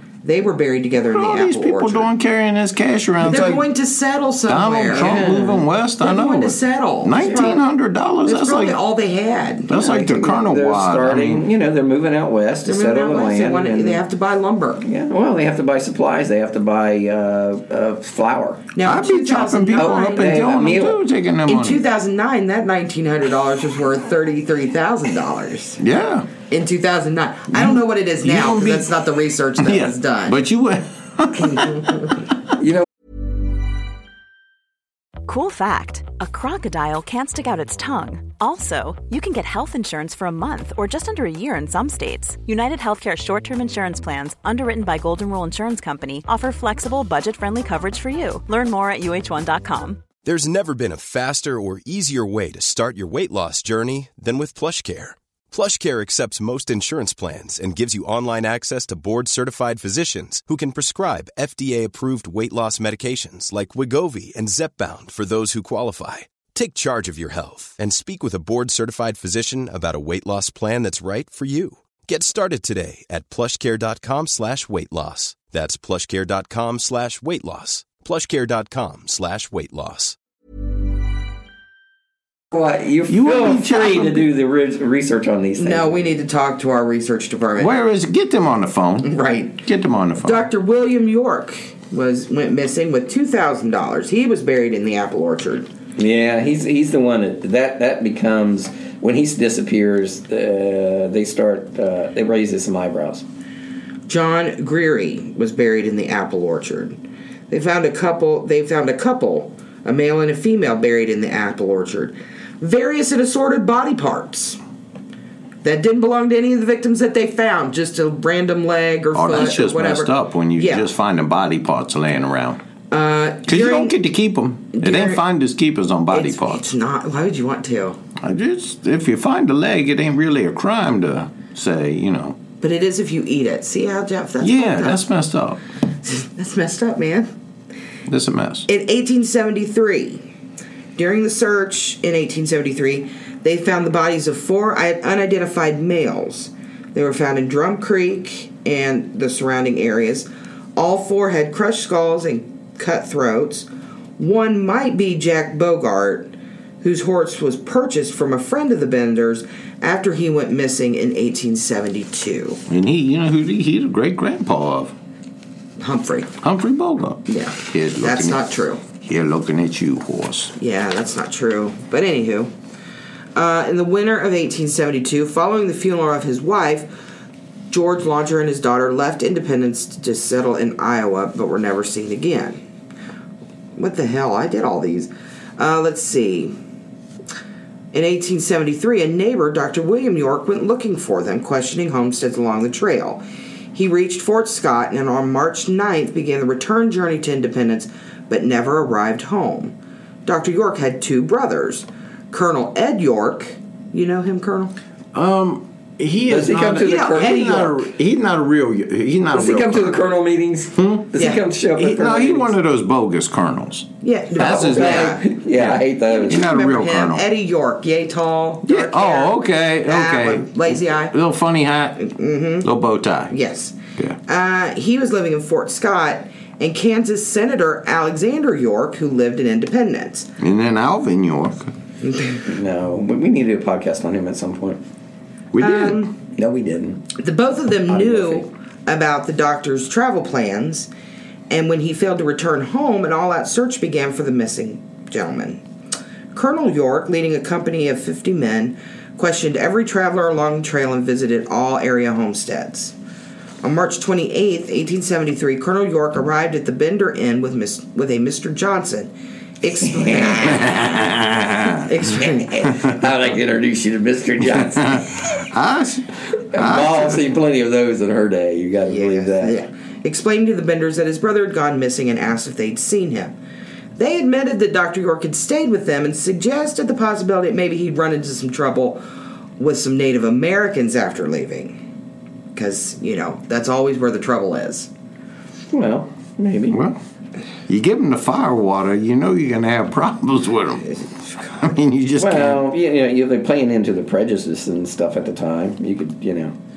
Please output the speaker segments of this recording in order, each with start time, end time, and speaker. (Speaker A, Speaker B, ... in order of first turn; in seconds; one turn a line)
Speaker A: 0.2-2.1
Speaker B: 1.0-3.7
Speaker A: 3.2-5.4
Speaker B: 4.5-8.8
Speaker C: 4.9-5.6
Speaker A: 6.0-7.6
Speaker A: 8.2-9.8
Speaker B: 9.7-11.5
Speaker C: 9.7-14.0
Speaker A: 12.6-14.8
Speaker C: 14.8-18.7
Speaker A: 18.7-20.3
Speaker B: 18.8-21.8
Speaker C: 19.7-21.0
Speaker A: 21.4-25.8
Speaker B: 25.8-26.3
Speaker A: 26.4-30.4
Speaker B: 27.5-29.0
Speaker B: 29.6-32.1
Speaker A: 31.4-32.1
Speaker C: 32.6-32.9
Speaker D: 35.2-50.1
Speaker E: 50.2-80.2
Speaker C: 82.5-86.1
Speaker B: 83.1-84.3
Speaker A: 85.6-87.7
Speaker B: 87.6-90.5
Speaker A: 89.0-89.6
Speaker A: 90.2-95.7
Speaker C: 96.0-103.2
Speaker A: 104.1-107.0
Speaker A: 107.5-114.6
Speaker A: 115.6-120.9
Speaker B: 119.1-122.6
Speaker A: 122.9-124.0
Speaker B: 123.5-126.7
Speaker A: 124.7-125.2
Speaker A: 126.1-128.0
Speaker B: 128.2-132.4
Speaker A: 132.6-135.0
Speaker B: 134.4-135.6
Speaker A: 136.0-137.3
Speaker B: 138.1-138.7
Speaker A: 138.7-140.2
Speaker A: 140.9-153.7
Speaker A: 154.2-162.6
Speaker B: 162.7-164.9
Speaker A: 165.8-166.3
Speaker B: 166.4-170.5
Speaker A: 167.3-168.8
Speaker A: 170.6-172.5
Speaker A: 173.3-176.9
Speaker A: 177.7-182.6
Speaker A: 183.8-186.5
Speaker A: 187.9-193.2
Speaker A: 193.7-204.7
Speaker B: 205.1-210.1
Speaker C: 206.3-207.7
Speaker A: 206.7-207.7
Speaker C: 209.3-212.5
Speaker B: 210.7-211.1
Speaker A: 211.2-211.4
Speaker B: 211.8-217.3
Speaker A: 214.0-215.3
Speaker C: 214.4-216.4
Speaker A: 216.1-221.1
Speaker B: 218.6-222.1
Speaker A: 222.0-222.7
Speaker B: 222.6-223.3
Speaker A: 223.3-230.3
Speaker B: 230.4-231.7
Speaker A: 232.0-232.4
Speaker C: 232.4-234.8
Speaker B: 235.5-236.1
Speaker A: 235.6-236.2
Speaker C: 236.3-237.1
Speaker A: 237.2-240.9
Speaker C: 237.9-238.5
Speaker A: 241.5-245.6
Speaker A: 246.3-252.9
Speaker A: 253.6-260.8
Speaker C: 260.0-260.6
Speaker B: 260.5-261.9
Speaker A: 261.8-262.7
Speaker C: 262.1-265.1
Speaker B: 264.5-267.2
Speaker C: 266.5-269.6
Speaker A: 268.9-273.4
Speaker A: 273.9-279.0
Speaker A: 279.6-281.8
Speaker A: 282.5-284.9
Speaker C: 285.7-286.8
Speaker B: 286.7-287.0
Speaker B: 287.7-290.9
Speaker B: 291.6-292.7
Speaker C: 292.1-296.5